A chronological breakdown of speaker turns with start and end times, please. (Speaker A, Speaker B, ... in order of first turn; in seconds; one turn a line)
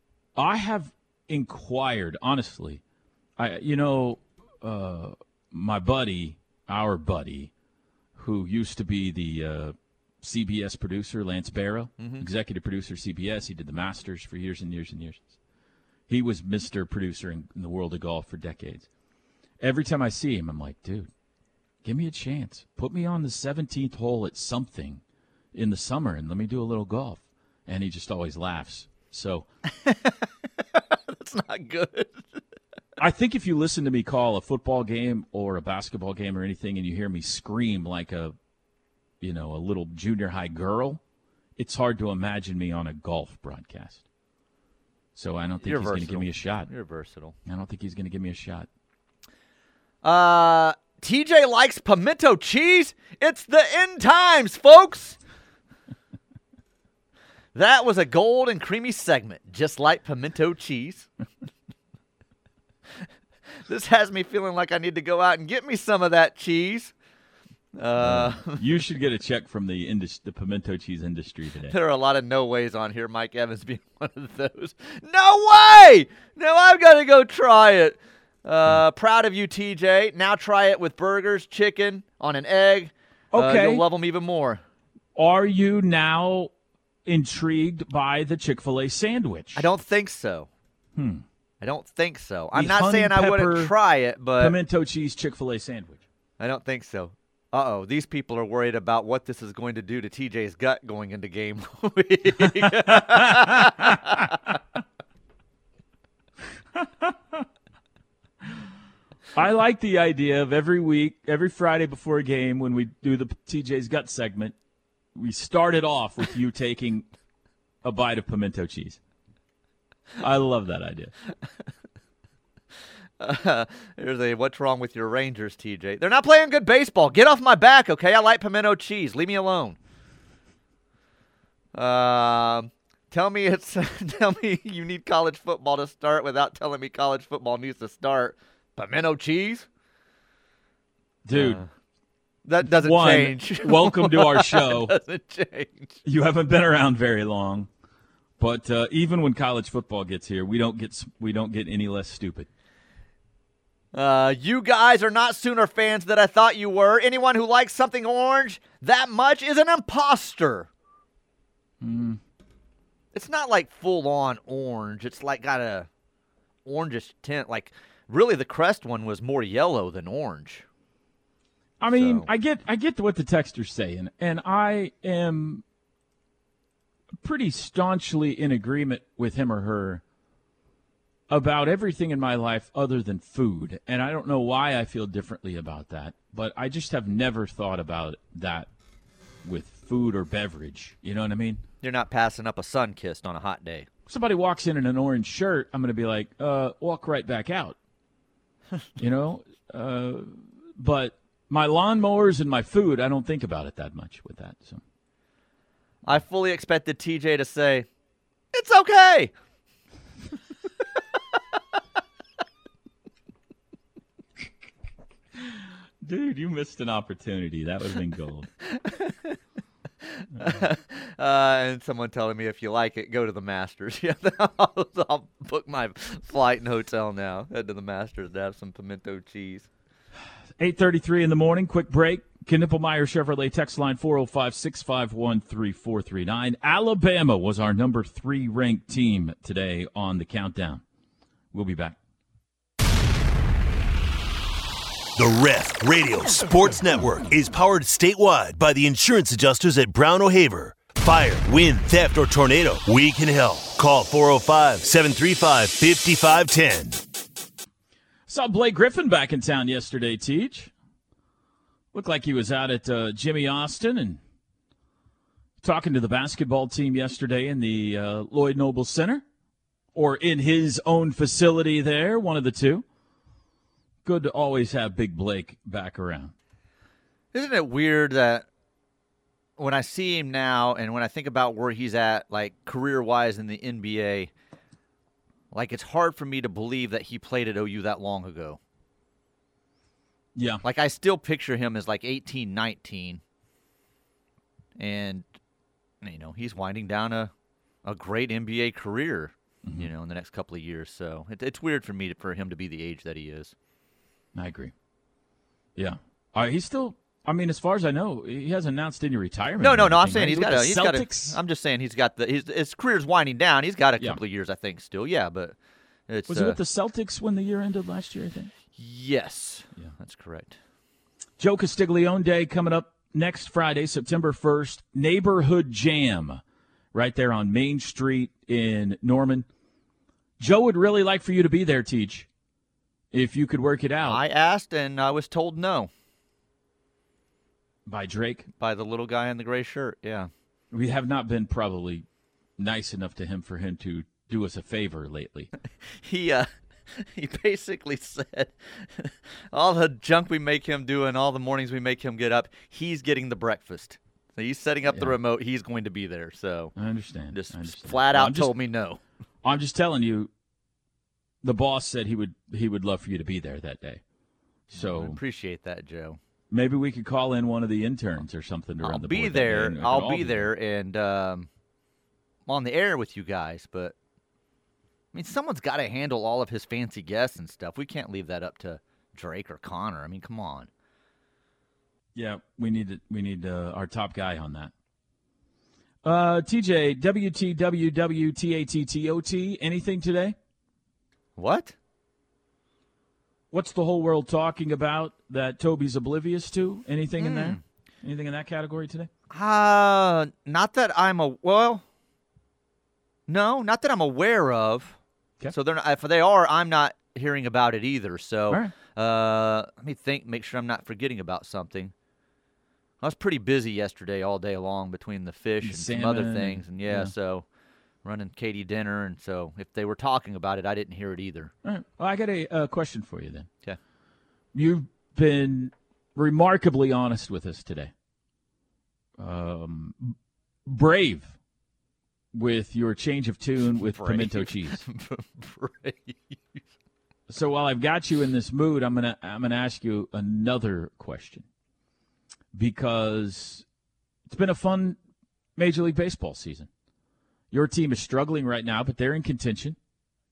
Speaker A: 0.3-2.8
Speaker A: 3.4-7.5
Speaker A: 8.2-15.3
Speaker B: 12.0-12.3
Speaker A: 16.1-18.9
Speaker A: 19.6-21.1
Speaker A: 21.8-25.0
Speaker A: 25.5-29.5
Speaker B: 29.7-30.2
Speaker B: 30.8-32.4
Speaker A: 33.0-38.4
Speaker A: 39.2-41.0
Speaker A: 41.6-44.0
Speaker A: 45.1-46.7
Speaker B: 45.6-47.4
Speaker A: 47.5-48.7
Speaker B: 50.0-55.2
Speaker B: 57.5-61.1
Speaker B: 63.7-66.9
Speaker B: 67.7-68.6
Speaker A: 68.0-71.8
Speaker B: 71.7-84.6
Speaker A: 83.3-83.8
Speaker A: 85.2-86.5
Speaker A: 87.1-89.7
Speaker B: 89.6-90.5
Speaker A: 91.0-91.2
Speaker B: 91.6-94.6
Speaker A: 92.5-93.7
Speaker A: 94.4-96.0
Speaker B: 96.4-104.4
Speaker A: 102.5-104.5
Speaker A: 106.8-107.4
Speaker A: 109.3-114.5
Speaker A: 115.2-117.1
Speaker A: 117.8-119.0
Speaker A: 120.2-121.1
Speaker B: 123.2-129.8
Speaker B: 131.7-139.7
Speaker A: 141.2-141.6
Speaker B: 141.3-141.7
Speaker B: 142.4-146.0
Speaker A: 142.6-144.9
Speaker A: 146.1-147.7
Speaker A: 148.4-152.5
Speaker B: 153.9-160.7
Speaker A: 161.8-162.2
Speaker B: 163.1-165.9
Speaker B: 166.7-170.7
Speaker A: 171.8-175.6
Speaker B: 171.9-172.3
Speaker A: 177.2-180.0
Speaker A: 181.3-188.7
Speaker A: 189.4-191.6
Speaker B: 191.8-193.9
Speaker A: 194.1-197.8
Speaker A: 199.0-204.8
Speaker B: 206.1-207.9
Speaker B: 208.5-209.3
Speaker A: 215.4-218.5
Speaker B: 218.6-219.4
Speaker B: 220.0-229.7
Speaker A: 230.6-240.8
Speaker A: 241.5-242.0
Speaker C: 245.2-257.0
Speaker A: 258.3-260.7
Speaker A: 261.9-264.2
Speaker A: 265.6-269.2
Speaker A: 269.9-272.9
Speaker A: 274.1-276.3
Speaker B: 277.3-278.5
Speaker B: 279.6-284.3
Speaker B: 285.5-288.6
Speaker A: 290.4-290.6
Speaker B: 290.6-293.2
Speaker B: 294.8-295.2
Speaker B: 296.0-297.3
Speaker B: 297.9-303.5
Speaker A: 299.6-299.9
Speaker A: 304.3-304.7
Speaker A: 305.8-311.4
Speaker B: 309.6-315.6
Speaker B: 316.1-316.6
Speaker A: 316.3-318.5
Speaker B: 318.8-320.6
Speaker A: 321.4-326.4
Speaker A: 326.9-329.5
Speaker A: 330.4-332.3
Speaker A: 333.1-334.2
Speaker B: 334.0-335.9
Speaker A: 337.9-338.5
Speaker B: 338.6-340.3
Speaker A: 340.7-342.1
Speaker A: 342.6-345.5
Speaker B: 345.9-356.8
Speaker A: 354.9-355.1
Speaker A: 356.8-358.5
Speaker B: 357.3-359.0
Speaker A: 359.4-360.3
Speaker A: 361.4-364.0
Speaker A: 364.7-365.2
Speaker B: 364.8-366.2
Speaker A: 366.5-370.5
Speaker B: 368.8-371.5
Speaker B: 372.5-373.9
Speaker B: 375.1-380.7
Speaker A: 382.1-384.7
Speaker A: 386.0-390.4
Speaker B: 391.4-391.8
Speaker A: 393.5-399.1
Speaker B: 397.2-397.6
Speaker B: 399.3-401.8
Speaker B: 403.3-405.0
Speaker B: 405.5-411.9
Speaker A: 408.5-408.7
Speaker B: 413.0-417.5
Speaker A: 415.6-417.1
Speaker B: 418.0-421.5
Speaker A: 421.6-423.5
Speaker A: 424.5-427.9
Speaker A: 429.2-431.4
Speaker A: 432.3-434.8
Speaker B: 433.8-436.6
Speaker A: 437.3-441.4
Speaker A: 442.5-443.6
Speaker A: 444.3-445.0
Speaker A: 445.6-446.7
Speaker A: 447.5-449.8